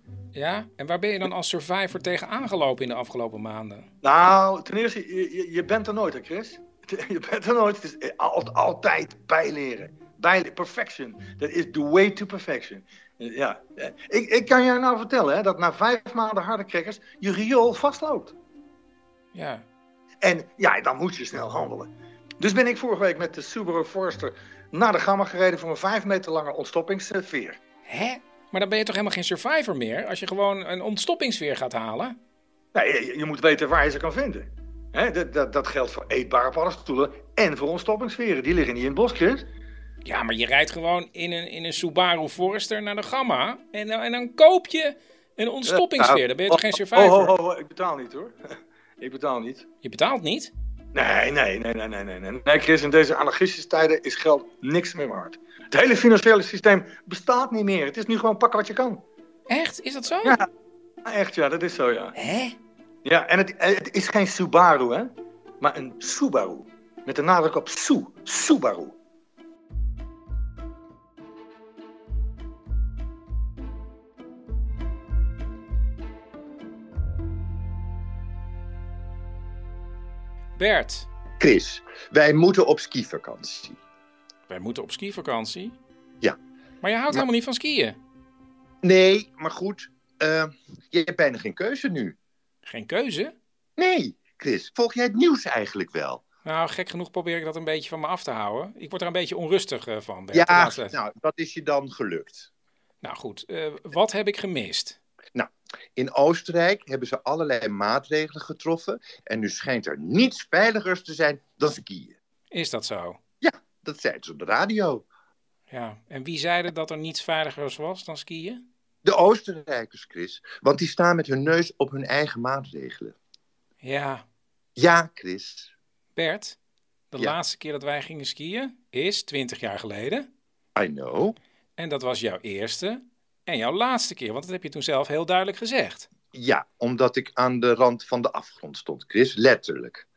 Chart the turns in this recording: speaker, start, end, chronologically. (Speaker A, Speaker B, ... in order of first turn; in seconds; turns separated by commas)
Speaker A: 0.3-3.9, Speaker B: 4.0-18.4, Speaker A: 19.3-19.6, Speaker B: 20.2-27.6, Speaker A: 27.9-32.2, Speaker B: 32.7-39.5, Speaker A: 40.0-47.3, Speaker B: 45.7-49.6, Speaker A: 49.8-50.5, Speaker B: 50.9-59.0, Speaker A: 59.5-60.4, Speaker B: 61.0-62.1, Speaker A: 62.1-62.5, Speaker B: 63.0-69.0, Speaker A: 80.5-81.1, Speaker C: 81.4-83.8, Speaker A: 84.5-85.8, Speaker A: 86.8-88.0, Speaker C: 88.8-92.1, Speaker A: 92.7-93.3, Speaker C: 93.8-96.2, Speaker A: 96.4-101.0, Speaker C: 100.3-102.5, Speaker A: 103.0-105.0, Speaker C: 105.3-112.2, Speaker A: 112.5-113.2, Speaker C: 113.4-115.0, Speaker A: 115.7-118.6, Speaker C: 119.0-123.1, Speaker A: 123.8-124.2, Speaker C: 124.8-125.7, Speaker A: 126.2-126.6, Speaker A: 127.1-130.2, Speaker C: 130.8-131.3, Speaker A: 131.8-136.1, Speaker C: 136.3-140.0